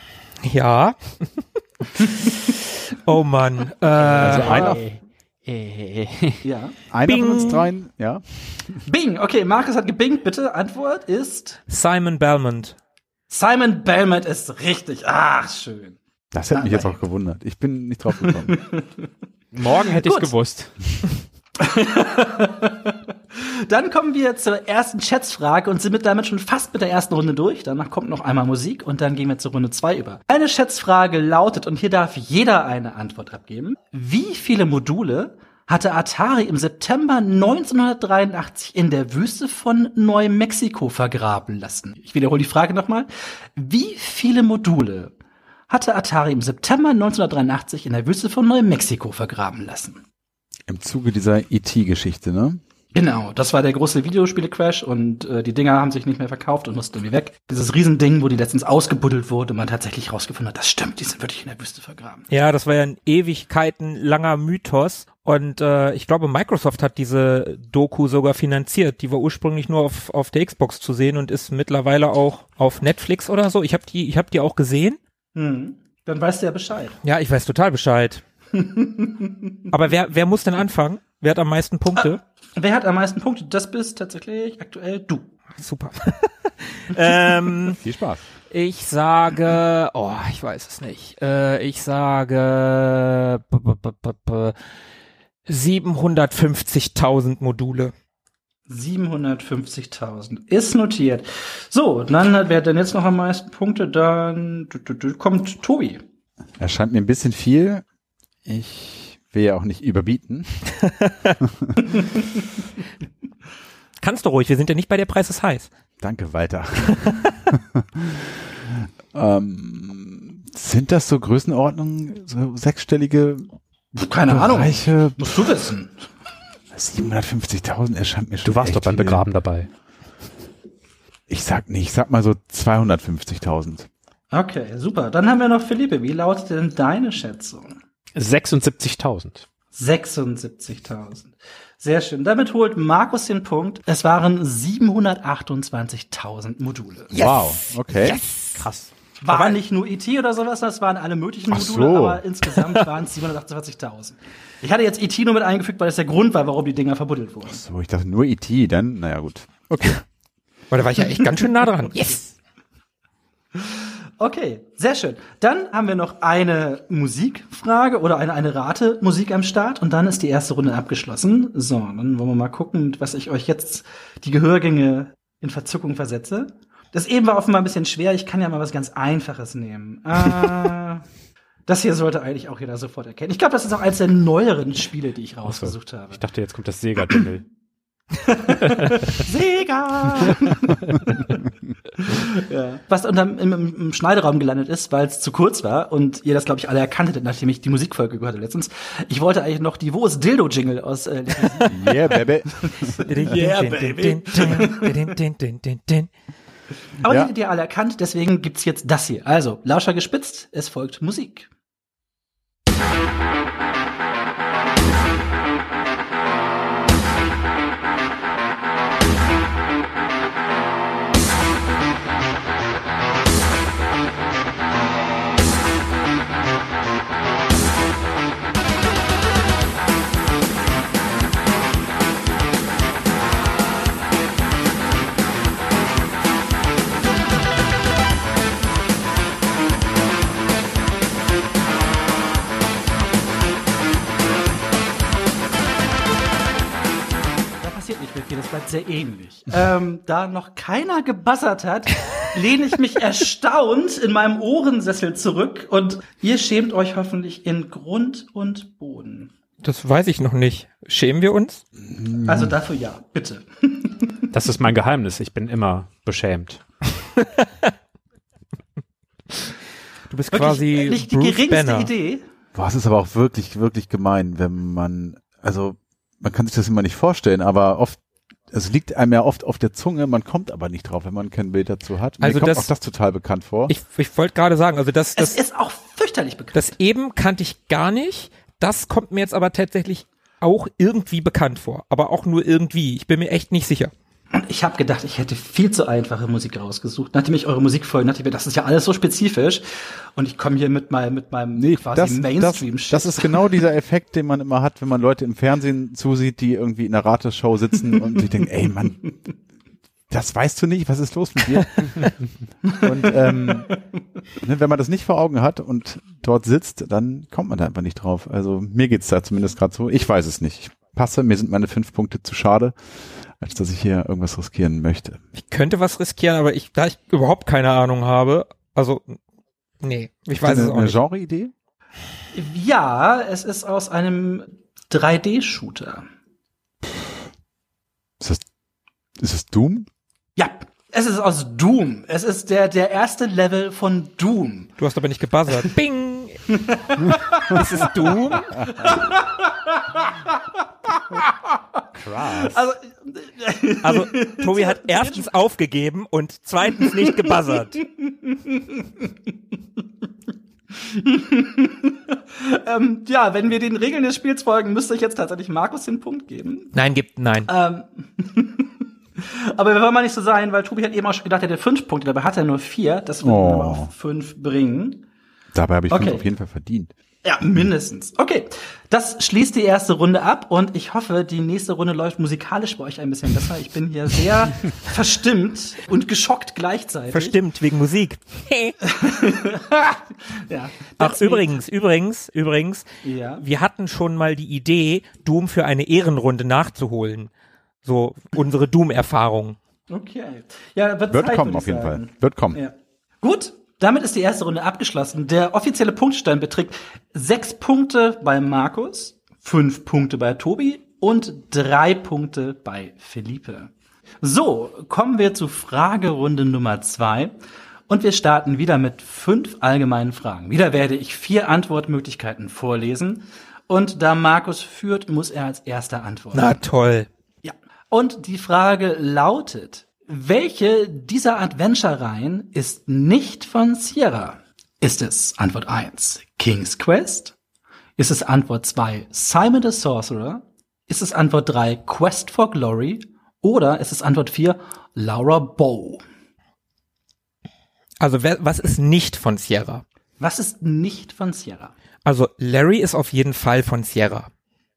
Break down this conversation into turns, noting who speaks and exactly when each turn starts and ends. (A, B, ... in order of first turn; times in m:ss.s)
0:00.4-0:04.7 A
0:04.1-0:04.8 B
0:04.2-0:06.4 C
0:04.4-0:04.7 D
0:06.4-0:06.8 D
0:06.9-0:08.7 B
0:07.0-0:07.7 A
0:08.8-0:11.6 D
0:11.7-0:12.8 A
0:13.3-0:16.0 D
0:16.3-0:18.6 B
0:16.5-0:17.0 D
0:18.2-0:19.0 D
0:19.5-0:20.7 C
0:19.9-0:20.3 D
0:21.6-0:45.1 D
0:45.7-0:50.0 D
0:50.7-0:52.6 B
0:52.9-1:02.2 D
1:02.3-1:15.0 A
1:15.3-1:17.0 D
1:17.0-1:18.2 A
1:18.5-1:19.5 D
1:19.7-1:22.2 A
1:22.0-1:25.3 D
1:25.6-1:27.8 A
1:27.7-1:28.2 B
1:28.5-1:34.5 A
1:35.5-1:37.9 A
1:38.7-1:46.0 D
1:46.6-1:47.8 B
1:48.4-1:50.8 B
1:50.8-1:51.3 A
1:51.4-1:51.8 B
1:54.0-1:55.7 A
1:56.0-2:03.5 B
1:57.0-1:57.3 A
2:03.9-2:06.0 D
2:04.3-2:05.4 B
2:06.7-2:09.2 B
2:08.4-2:09.7 C
2:11.3-2:13.9 B
2:14.3-2:17.8 D
2:18.1-2:19.4 C
2:19.7-2:27.1 D
2:27.1-2:28.2 B
2:27.2-2:28.6 A
2:28.6-2:28.9 C
2:29.2-2:37.6 D
2:29.3-2:29.6 A
2:31.5-2:32.2 B
2:37.5-2:40.0 B
2:40.7-2:42.3 A
2:43.6-3:01.0 D
3:01.7-3:06.2 D
3:05.4-3:07.4 C
3:08.2-3:11.4 D
3:08.7-3:09.2 C
3:12.0-3:25.1 D
3:21.7-3:23.0 B
3:23.0-3:26.1 A
3:27.0-3:31.5 D
3:27.0-3:27.3 B
4:07.6-4:19.3 D
4:19.6-4:21.6 A
4:21.8-4:22.6 B
4:22.2-4:24.3 D
4:24.3-4:26.6 C
4:30.1-4:31.9 A
4:30.3-4:32.2 D
4:32.5-4:38.0 B
4:38.5-4:43.7 B
4:42.2-4:42.7 A
4:43.7-4:45.4 A
4:45.2-4:46.7 D
4:46.5-4:53.9 A
4:54.3-5:03.5 D
5:01.5-5:09.1 B
5:10.1-5:12.1 B
5:12.8-5:13.7 B
5:12.9-5:13.7 D
5:14.4-5:22.8 B
5:23.4-5:25.2 B
5:25.3-5:29.2 A
5:29.8-5:31.0 A
5:30.4-5:31.5 B
5:32.3-5:36.0 D
5:39.2-5:39.9 B
5:40.4-5:44.7 D
5:44.8-5:46.4 A
5:46.5-5:47.6 D
5:47.4-5:48.6 A
5:48.6-5:51.6 D
5:52.0-5:52.5 C
5:52.3-5:55.2 D
5:53.8-5:57.8 A
5:57.2-5:59.0 D
6:00.7-6:06.7 D
6:06.7-6:07.5 A
6:07.5-6:15.0 D
6:13.2-6:13.9 B
6:15.5-6:16.9 B
6:15.9-6:16.2 D
6:17.2-6:27.4 D
6:27.1-6:28.8 A
6:28.9-6:31.4 D
6:31.0-6:32.8 A
6:33.0-6:33.4 D
6:33.4-6:37.3 A
6:37.8-6:39.6 A
6:39.9-6:53.7 D
6:41.1-6:42.6 B
6:54.2-6:57.3 D
6:57.9-7:06.6 D
7:06.3-7:07.1 A
7:07.4-7:17.3 D
7:18.0-7:26.0 D
7:28.0-7:29.8 A
7:30.2-7:31.7 D
7:32.0-7:34.3 A